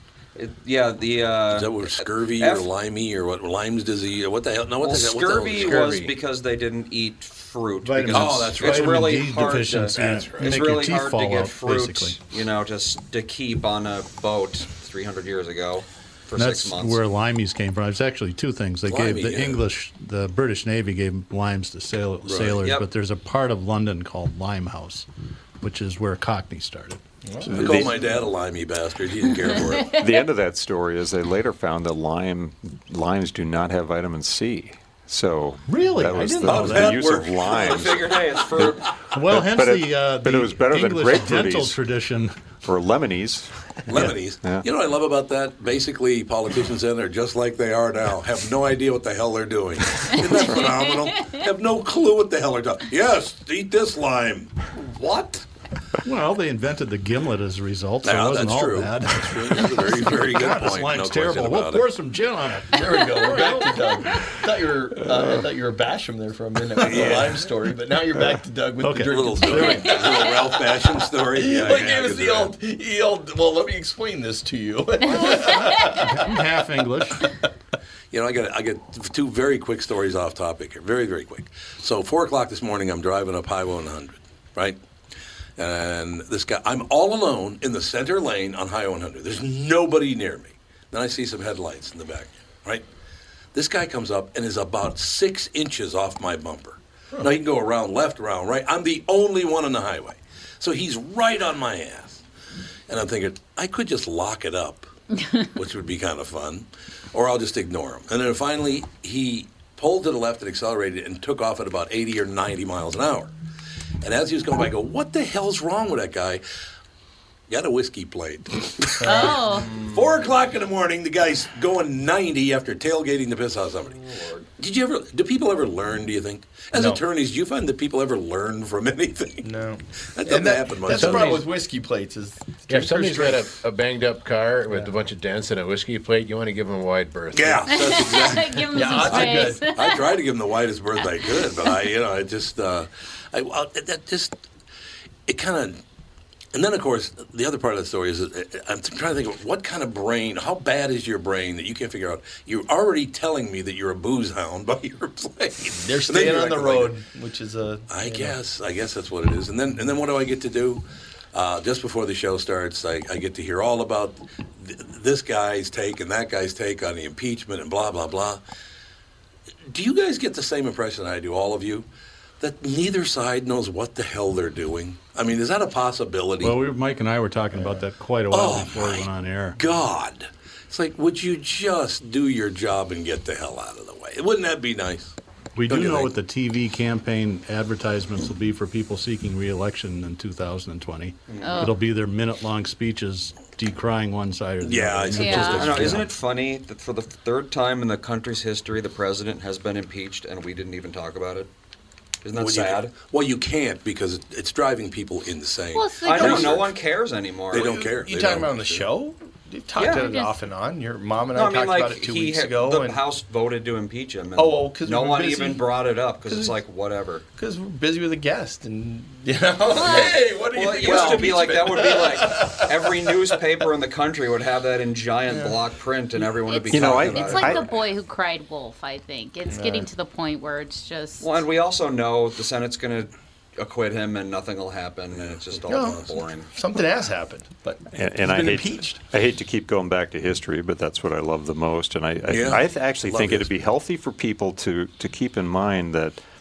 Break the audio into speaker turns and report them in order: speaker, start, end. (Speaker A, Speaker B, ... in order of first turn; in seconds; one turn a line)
Speaker A: 0.3-2.7
Speaker B: 1.5-5.8
Speaker A: 4.8-17.0
Speaker C: 5.5-6.2
Speaker D: 7.8-12.2
Speaker B: 8.1-9.0
Speaker B: 9.9-10.6
Speaker D: 16.4-25.1
Speaker B: 18.9-19.6
Speaker B: 22.2-22.6
Speaker A: 22.6-22.9
Speaker D: 25.6-27.0
Speaker E: 27.2-28.2
Speaker B: 27.5-29.9
Speaker F: 27.6-27.9
Speaker G: 29.8-30.0
Speaker F: 29.8-41.8
Speaker D: 35.7-37.0
Speaker B: 36.4-38.1
Speaker A: 37.4-38.9
Speaker D: 39.1-42.3
Speaker F: 42.6-44.6
Speaker B: 43.9-54.5
Speaker G: 50.6-51.4
Speaker E: 54.8-55.4
Speaker D: 56.0-63.8
Speaker B: 58.0-61.9
Speaker E: 62.7-76.4
Speaker B: 66.8-67.4
Speaker D: 68.8-70.0
Speaker B: 69.0-72.5
Speaker D: 75.2-77.2
Speaker B: 78.1-84.8
Speaker B: 85.6-92.8
Speaker B: 93.5-102.2
Speaker B: 102.9-104.9
Speaker B: 105.5-113.3
Speaker B: 114.0-116.4
Speaker B: 117.5-119.4
Speaker E: 119.0-119.3
Speaker G: 119.0-119.7
Speaker A: 119.5-120.2
Speaker B: 119.9-123.9
Speaker A: 123.9-124.5
Speaker B: 124.6-129.5
Speaker E: 126.7-127.0
Speaker E: 129.4-133.6
Speaker B: 130.2-131.4
Speaker C: 130.9-131.4
Speaker C: 132.7-137.8
Speaker E: 134.7-135.0
Speaker B: 137.3-144.4
Speaker G: 137.7-140.1
Speaker E: 138.7-139.7
Speaker B: 145.3-145.8
Speaker B: 146.5-156.9
Speaker E: 155.7-158.4
Speaker B: 157.9-168.4
Speaker B: 169.7-171.9
Speaker B: 172.4-176.6
Speaker D: 176.4-179.6
Speaker E: 177.5-177.8
Speaker B: 178.3-185.1
Speaker D: 185.6-196.1
Speaker B: 185.7-186.1
Speaker A: 191.3-191.8
Speaker G: 191.4-191.8
Speaker B: 194.6-196.1
Speaker G: 195.1-195.7
Speaker A: 195.4-201.5
Speaker A: 202.2-202.9
Speaker B: 202.3-206.7
Speaker G: 205.7-206.6
Speaker A: 206.0-207.8
Speaker B: 207.5-208.9
Speaker E: 207.5-213.0
Speaker A: 209.8-210.1
Speaker G: 209.9-210.3
Speaker A: 211.3-217.2
Speaker E: 214.3-215.7
Speaker E: 216.2-216.6
Speaker E: 217.4-223.4
Speaker G: 219.7-220.2
Speaker A: 219.7-227.7
Speaker G: 220.9-221.2
Speaker E: 225.3-225.6
Speaker G: 226.5-231.3
Speaker F: 226.7-227.7
Speaker E: 229.5-229.9
Speaker A: 231.2-236.5
Speaker B: 235.1-236.1
Speaker E: 235.7-239.0
Speaker F: 237.9-246.2
Speaker B: 242.3-243.5